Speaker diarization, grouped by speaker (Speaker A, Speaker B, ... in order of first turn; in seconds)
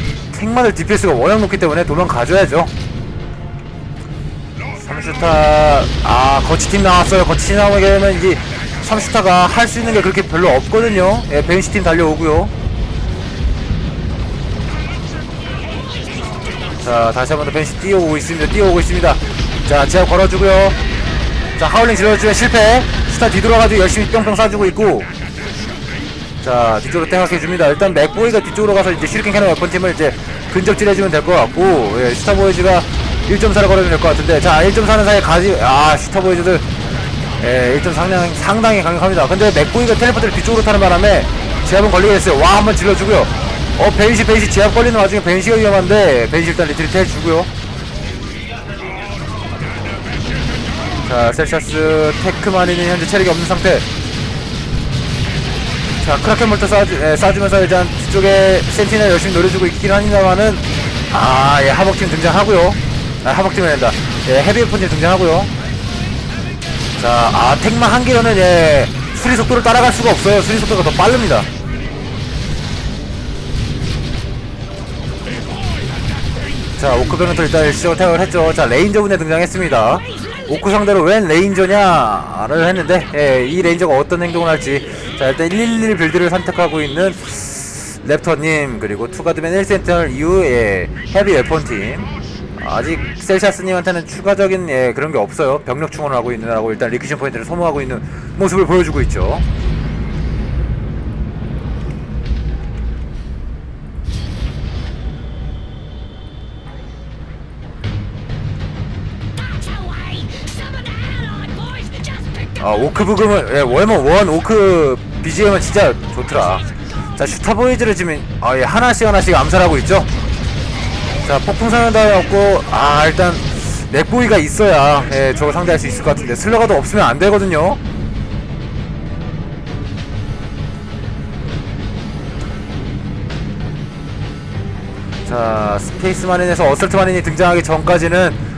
Speaker A: 0.3-2.7, 4.7-12.5, 16.8-20.8, 21.6-25.1, 26.4-36.7, 37.4-47.5, 51.0-53.9, 56.0-65.5, 67.0-71.5, 76.8-99.5, 112.6-116.7, 117.2-120.1, 121.2-127.8, 135.2-138.4